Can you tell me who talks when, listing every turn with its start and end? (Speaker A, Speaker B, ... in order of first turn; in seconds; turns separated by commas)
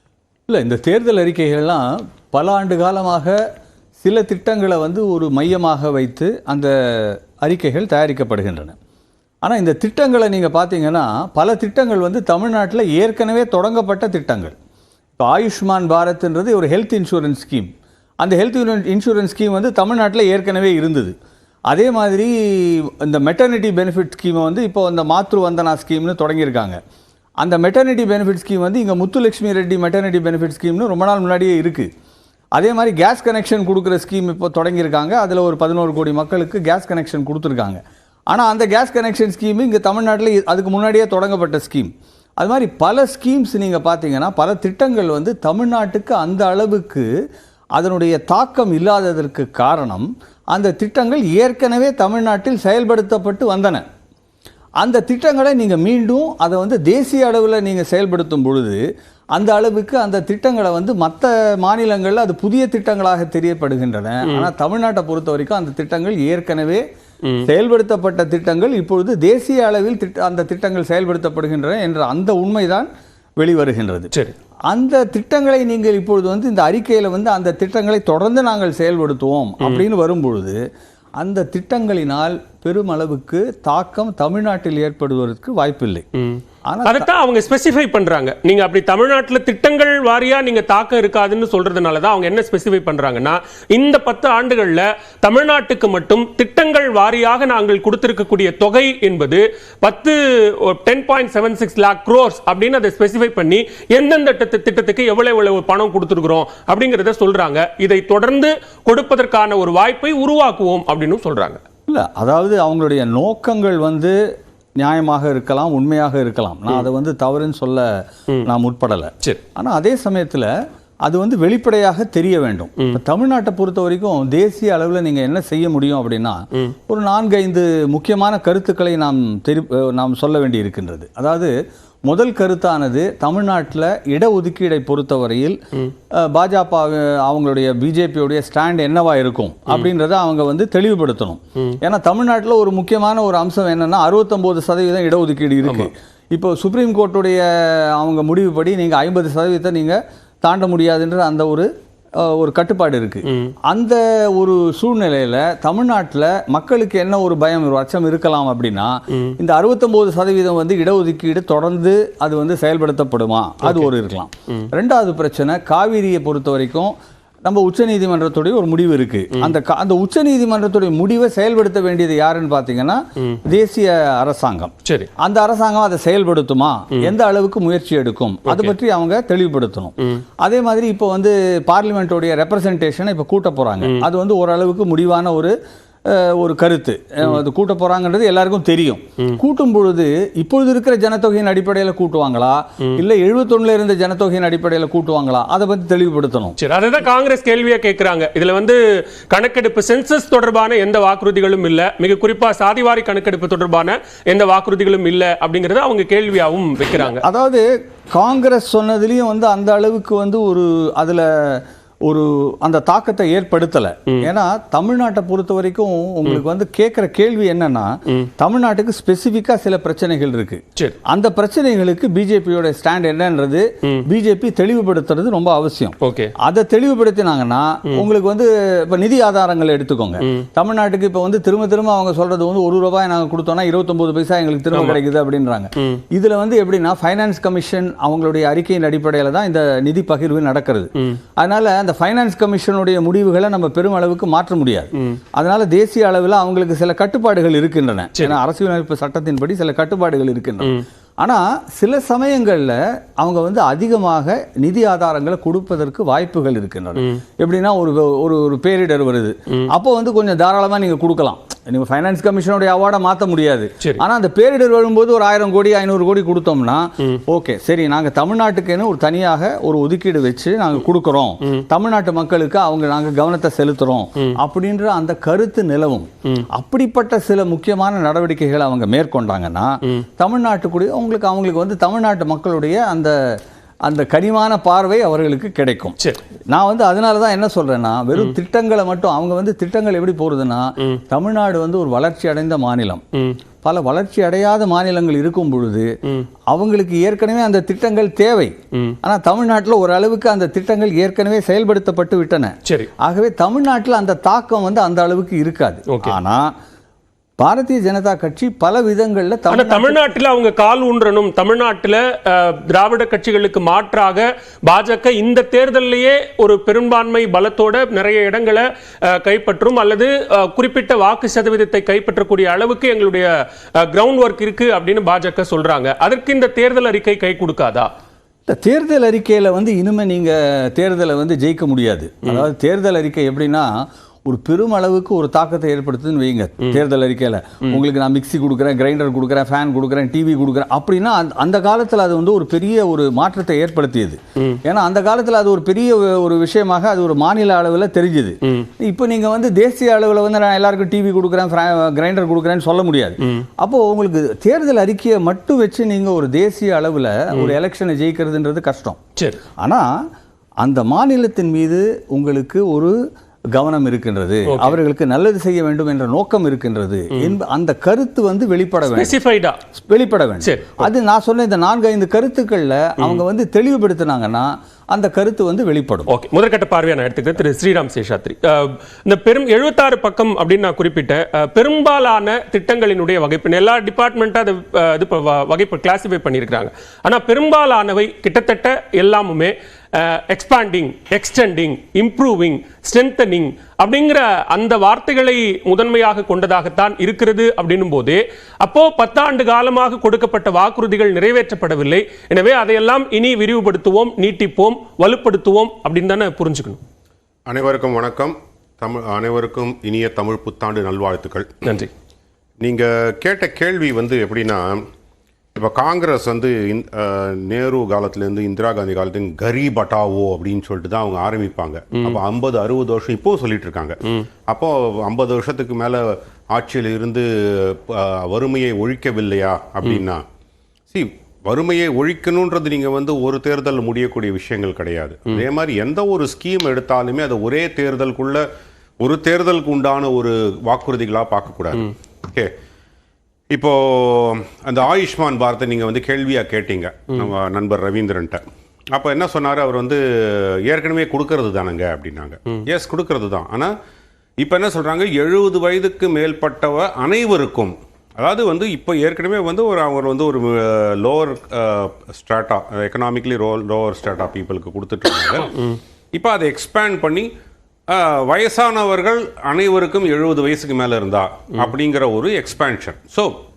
Speaker A: 0.5-3.4, Speaker A: 4.0-8.8, Speaker A: 9.4-14.5, Speaker A: 15.2-17.7, Speaker A: 18.2-21.1, Speaker A: 21.7-26.8, Speaker A: 27.4-31.9, Speaker A: 32.6-37.8, Speaker A: 38.3-47.1, Speaker A: 47.8-53.8, Speaker A: 54.8-58.8, Speaker A: 59.4-66.8, Speaker A: 67.5-72.9, Speaker A: 73.4-74.1, Speaker A: 74.7-80.6, Speaker A: 81.2-86.0, Speaker B: 86.2-111.6, Speaker A: 86.7-87.1, Speaker A: 111.9-114.2, Speaker A: 114.8-117.9, Speaker A: 118.5-120.5, Speaker A: 121.1-131.5, Speaker A: 132.1-135.6, Speaker A: 136.2-151.7, Speaker A: 152.2-166.9, Speaker B: 153.3-153.5, Speaker B: 163.6-163.9, Speaker A: 167.4-185.5, Speaker B: 174.8-175.1, Speaker B: 178.5-178.7, Speaker A: 186.1-196.6, Speaker B: 196.6-207.2, Speaker A: 207.0-283.1, Speaker B: 226.0-226.3, Speaker B: 234.7-235.0, Speaker A: 283.9-286.0, Speaker A: 286.5-293.0, Speaker A: 293.6-295.9, Speaker A: 296.5-306.5, Speaker B: 305.9-306.1, Speaker A: 307.4-310.2, Speaker B: 309.5-327.9, Speaker A: 328.5-333.7, Speaker A: 334.3-359.0, Speaker A: 359.6-359.9, Speaker A: 360.6-362.9, Speaker A: 363.6-369.2, Speaker B: 364.5-364.8, Speaker B: 368.9-369.6, Speaker A: 369.9-376.1, Speaker B: 370.4-370.9, Speaker B: 376.1-406.8, Speaker C: 407.5-411.6, Speaker B: 411.6-411.9, Speaker C: 412.6-414.8, Speaker C: 415.6-430.2, Speaker C: 430.9-438.4, Speaker C: 439.0-442.5, Speaker C: 443.5-453.7, Speaker C: 454.4-465.5, Speaker C: 466.1-467.3, Speaker C: 467.9-473.3